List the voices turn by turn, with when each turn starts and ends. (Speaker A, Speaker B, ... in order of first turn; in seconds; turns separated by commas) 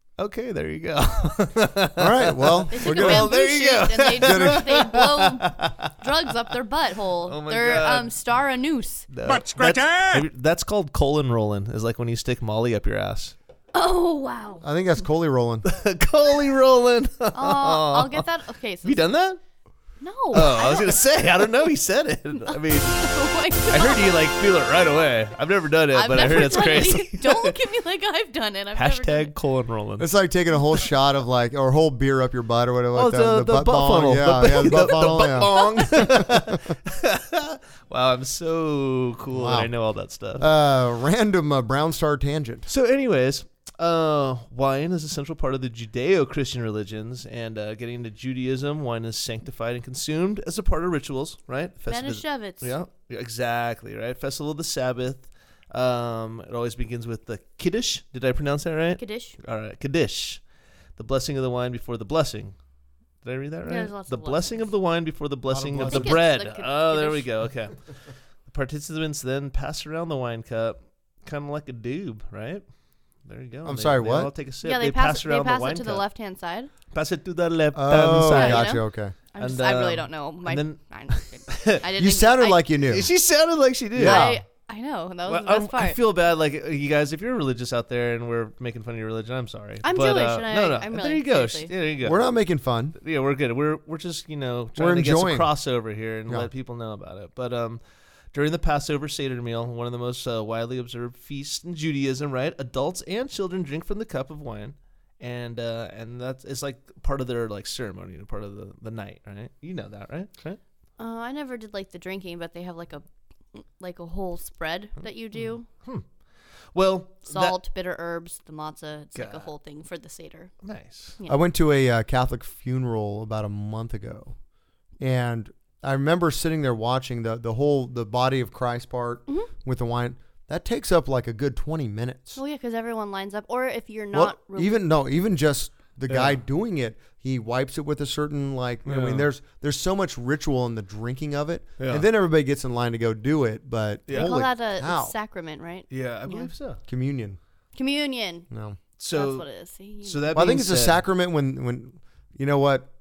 Speaker A: 0.2-5.9, Speaker B: 1.9-3.4, Speaker C: 2.7-9.1, Speaker B: 4.2-4.7, Speaker A: 7.2-8.2, Speaker A: 9.1-13.3, Speaker C: 13.7-14.7, Speaker B: 14.6-15.7, Speaker A: 15.6-18.3, Speaker C: 17.3-19.0, Speaker A: 18.8-19.4, Speaker C: 20.0-21.0, Speaker A: 20.3-23.0, Speaker C: 22.5-24.2, Speaker A: 23.7-27.6, Speaker C: 25.9-29.3, Speaker A: 28.7-30.1, Speaker B: 30.0-36.6, Speaker A: 32.9-40.5, Speaker B: 39.3-39.7, Speaker B: 40.4-42.7, Speaker A: 42.7-60.4, Speaker C: 51.8-52.7, Speaker C: 59.0-59.4, Speaker A: 61.0-62.5, Speaker A: 63.2-72.6, Speaker C: 63.7-64.7, Speaker B: 65.5-66.2, Speaker C: 65.8-67.3, Speaker A: 73.2-76.0, Speaker B: 73.6-74.3, Speaker C: 74.6-76.7, Speaker A: 76.9-78.8, Speaker B: 77.7-79.1, Speaker C: 78.3-82.7, Speaker A: 79.4-81.8, Speaker B: 82.0-83.1, Speaker A: 82.9-84.4, Speaker B: 84.0-84.4, Speaker C: 84.0-86.0, Speaker A: 85.2-92.2, Speaker C: 89.8-91.7, Speaker B: 92.0-93.0, Speaker A: 93.0-97.8, Speaker B: 94.8-95.5, Speaker A: 98.3-110.6, Speaker C: 111.0-115.7, Speaker A: 115.3-116.0, Speaker A: 116.7-117.6, Speaker C: 117.3-120.5, Speaker A: 119.1-119.5, Speaker A: 120.6-121.2, Speaker B: 121.3-124.3, Speaker B: 125.0-132.4, Speaker C: 132.3-134.8, Speaker B: 134.1-145.1, Speaker A: 136.1-136.4, Speaker A: 138.8-139.3, Speaker A: 141.8-142.1, Speaker A: 144.1-144.4, Speaker C: 144.1-146.5, Speaker A: 145.9-146.8, Speaker B: 146.9-147.4, Speaker C: 147.7-148.5, Speaker B: 148.5-148.8, Speaker A: 149.0-149.5, Speaker C: 149.1-150.3, Speaker A: 150.0-151.0, Speaker B: 150.3-152.9